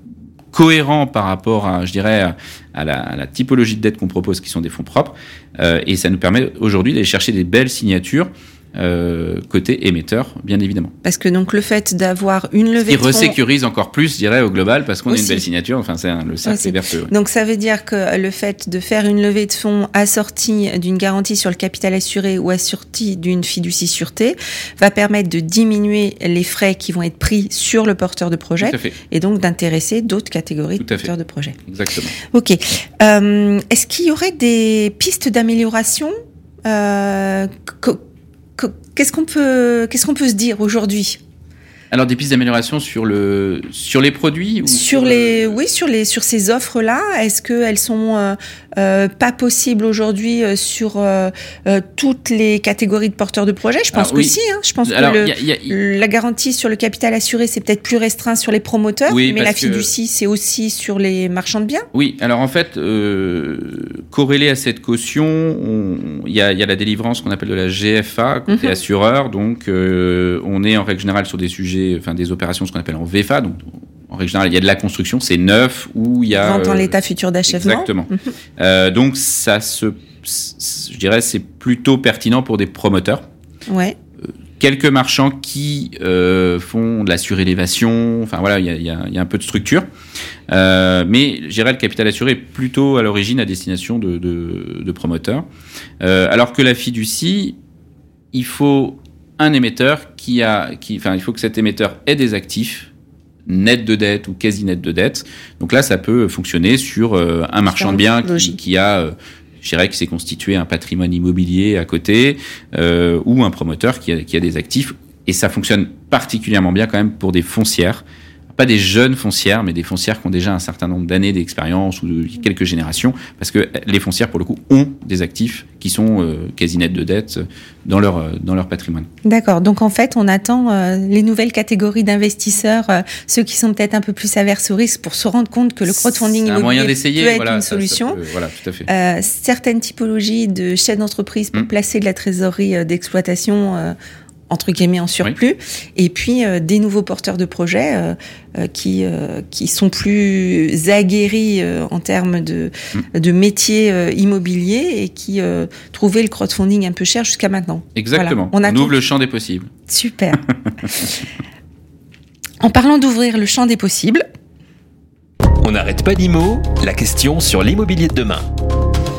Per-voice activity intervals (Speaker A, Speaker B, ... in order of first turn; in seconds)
Speaker A: 0.5-10.9, 12.8-17.1, 28.6-29.0, 30.8-31.1, 31.7-32.1, 41.9-45.6, 53.9-55.8, 59.1-59.9, 61.9-76.9, 77.5-83.2, 84.6-89.8, 90.5-95.4, 96.0-97.6, 98.3-102.9, 103.5-129.1, 135.9-138.9, 158.0-159.7
Speaker B: 11.0-13.4, 15.1-15.5, 16.4-31.6, 32.2-36.1, 36.6-38.0, 38.6-41.2, 44.7-61.9, 68.5-68.8, 76.3-78.3, 83.7-84.0, 107.6-108.6, 129.2-138.2, 138.9-143.9, 144.5-159.0, 159.9-160.4, 162.6-164.2
Speaker C: 165.6-168.5